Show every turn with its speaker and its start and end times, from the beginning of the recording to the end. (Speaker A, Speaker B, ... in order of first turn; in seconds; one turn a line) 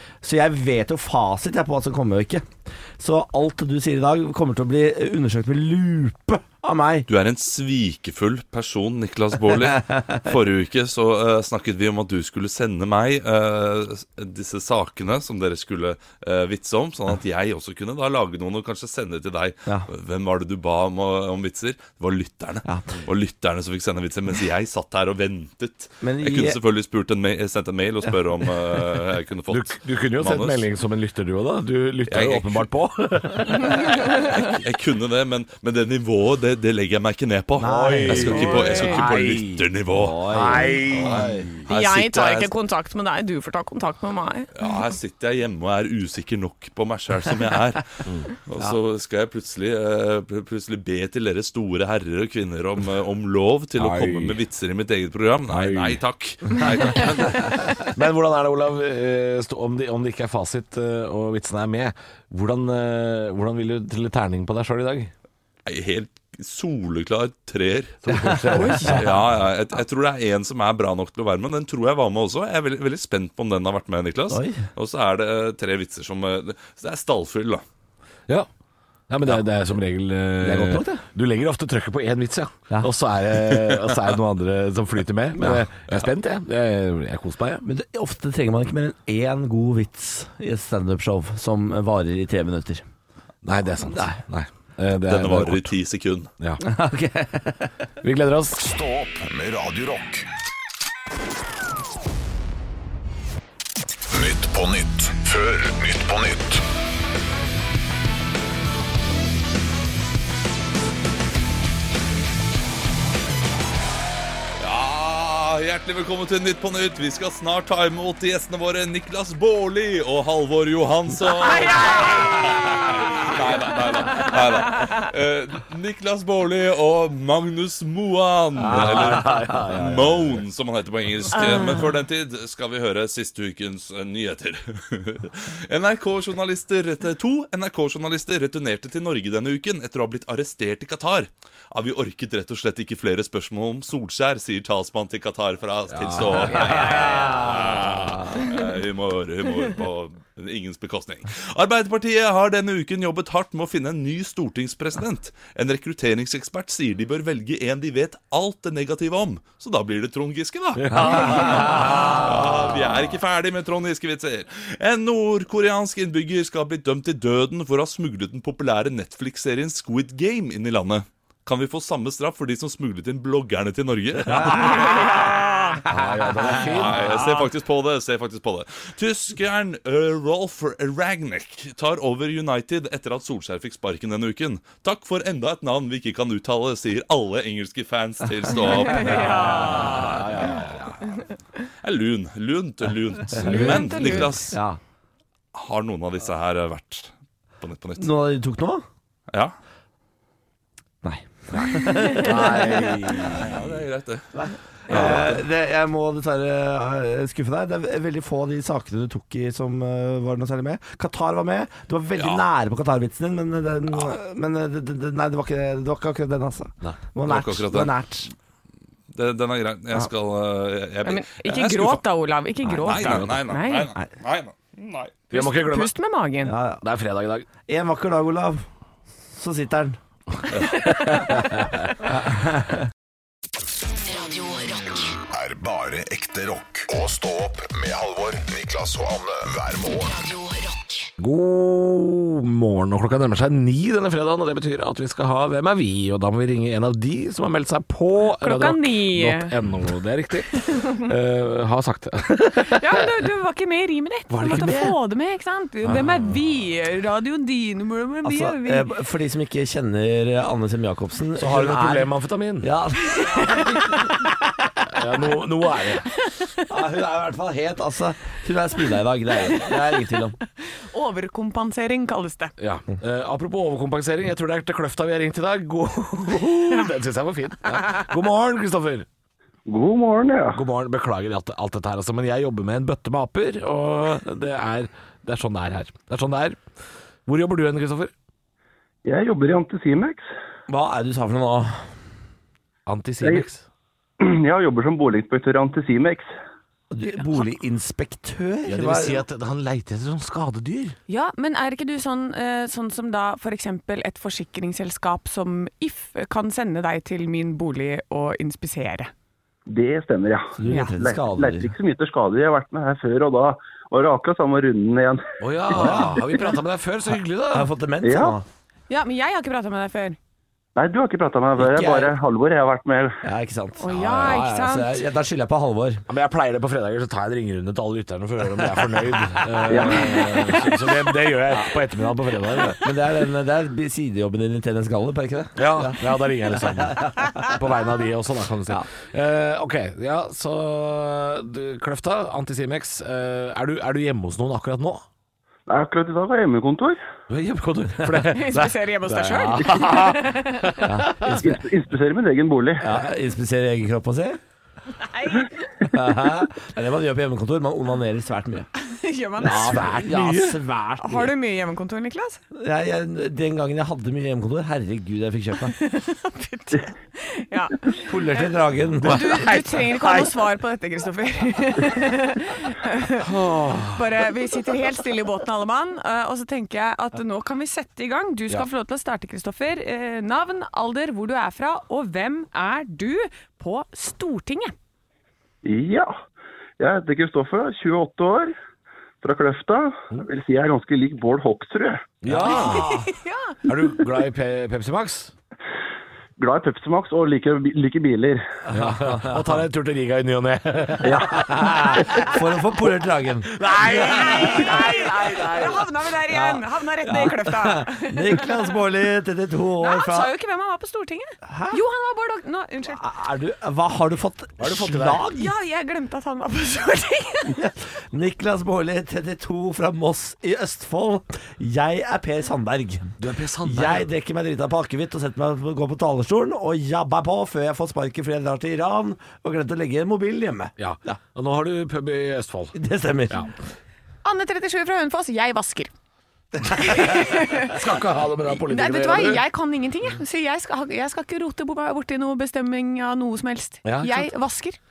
Speaker A: 0.2-7.1
Speaker B: 7.1-30.6
Speaker A: 26.0-26.6
Speaker C: 29.5-33.9
Speaker B: 32.1-32.6
Speaker B: 33.7-40.2
Speaker D: 33.9-34.1
Speaker A: 37.6-38.7
Speaker C: 37.6-39.7
Speaker D: 38.2-39.0
Speaker A: 39.9-41.5
Speaker C: 40.3-41.7
Speaker B: 40.9-42.1
Speaker D: 41.7-44.5
Speaker B: 44.6-57.8
Speaker C: 53.8-54.4
Speaker C: 55.5-56.0
Speaker C: 57.8-65.1
Speaker B: 65.7-68.2
Speaker C: 68.0-69.2
Speaker D: 68.6-69.0
Speaker A: 68.6-68.9
Speaker B: 68.9-77.6
Speaker A: 74.3-74.7
Speaker C: 79.1-87.7
Speaker A: 80.4-81.0
Speaker A: 87.6-92.8
Speaker C: 93.4-95.7
Speaker A: 93.9-94.2
Speaker B: 95.1-96.3
Speaker A: 96.6-97.7
Speaker C: 98.0-98.6
Speaker E: 98.6-100.3
Speaker E: 104.1-106.6
Speaker B: 114.6-175.2
Speaker C: 128.6-130.1
Speaker A: 128.6-130.3
Speaker D: 131.3-131.8
Speaker C: 145.9-147.3
Speaker A: 146.6-147.9
Speaker C: 160.8-162.4
Speaker A: 161.0-162.1
Speaker A: 174.4-177.4
Speaker C: 175.9-177.2
Speaker B: 176.6-190.7
Speaker D: 188.8-190.2
Speaker C: 189.6-190.9
Speaker A: 189.7-190.2
Speaker B: 191.8-194.6
Speaker A: 193.4-194.8
Speaker D: 193.4-194.5
Speaker B: 195.6-198.1
Speaker A: 198.0-198.8
Speaker A: 201.0-203.6
Speaker D: 201.9-202.2
Speaker C: 202.1-203.7
Speaker B: 203.3-204.2
Speaker A: 204.4-218.3
Speaker B: 204.9-205.4
Speaker C: 204.9-205.2
Speaker B: 217.2-217.9
Speaker B: 219.1-222.0
Speaker D: 221.0-223.9
Speaker B: 222.7-225.2
Speaker C: 222.9-223.4
Speaker C: 225.3-225.9
Speaker D: 225.3-226.5
Speaker A: 226.4-226.8
Speaker C: 226.8-227.5
Speaker A: 227.7-228.7
Speaker A: 229.3-230.0
Speaker C: 231.0-231.8
Speaker A: 232.0-232.8
Speaker F: 233.9-235.2
Speaker E: 235.3-240.2
Speaker F: 240.0-241.1
Speaker C: 241.2-253.1
Speaker D: 248.4-249.5
Speaker D: 250.5-251.1
Speaker D: 252.7-258.9
Speaker C: 254.3-255.0
Speaker A: 258.2-264.3
Speaker C: 261.4-262.7
Speaker D: 263.1-264.2
Speaker C: 264.9-266.1
Speaker D: 266.1-266.6
Speaker A: 266.7-270.4
Speaker D: 269.4-270.1
Speaker D: 270.6-272.5
Speaker C: 272.6-279.1
Speaker G: 279.7-280.6
Speaker C: 280.5-286.6
Speaker C: 287.3-288.1
Speaker G: 289.1-290.3
Speaker A: 290.7-291.9
Speaker C: 292.9-293.6
Speaker G: 294.2-296.3
Speaker A: 296.9-299.2
Speaker C: 298.7-301.0
Speaker D: 301.1-309.1
Speaker G: 309.7-315.3
Speaker A: 310.6-311.7
Speaker D: 310.7-310.9
Speaker C: 315.4-317.7
Speaker A: 315.7-316.4
Speaker A: 317.5-318.5
Speaker G: 318.0-318.4
Speaker D: 318.9-320.2
Speaker G: 320.8-323.2
Speaker A: 321.6-322.1
Speaker A: 323.2-326.0
Speaker D: 323.8-325.0
Speaker C: 326.1-332.9
Speaker G: 329.7-330.3
Speaker A: 329.7-330.6
Speaker A: 331.5-331.8
Speaker A: 332.6-337.5
Speaker C: 335.6-345.0
Speaker G: 345.7-347.0
Speaker C: 347.3-351.4
Speaker D: 348.1-350.8
Speaker A: 350.9-351.6
Speaker G: 351.4-352.9
Speaker A: 352.8-354.4
Speaker D: 355.0-355.6
Speaker A: 355.9-358.7
Speaker D: 358.8-360.1
Speaker A: 359.4-361.3
Speaker C: 359.5-360.6
Speaker D: 361.0-362.4
Speaker A: 362.5-365.8
Speaker D: 365.7-368.0
Speaker A: 368.0-370.3
Speaker D: 369.0-373.3
Speaker C: 373.2-374.0
Speaker D: 373.9-384.7
Speaker G: 385.6-386.2
Speaker G: 386.8-388.6
Speaker G: 389.2-392.2
Speaker C: 392.2-393.1
Speaker D: 392.4-393.6
Speaker C: 393.6-395.3
Speaker G: 396.4-398.5
Speaker C: 398.7-402.2
Speaker A: 398.7-399.6
Speaker G: 401.0-401.3
Speaker A: 401.1-410.3
Speaker C: 403.6-405.8
Speaker D: 403.8-408.7
Speaker D: 409.8-413.0
Speaker A: 411.4-411.8
Speaker A: 412.9-415.5
Speaker C: 414.6-415.3
Speaker D: 415.4-417.6
Speaker A: 417.5-431.2
Speaker C: 423.2-424.1
Speaker C: 430.8-432.8
Speaker A: 432.7-433.5
Speaker D: 434.2-435.9
Speaker A: 436.6-437.1
Speaker D: 436.8-437.7
Speaker C: 437.5-439.4
Speaker D: 438.6-444.8
Speaker C: 443.8-444.3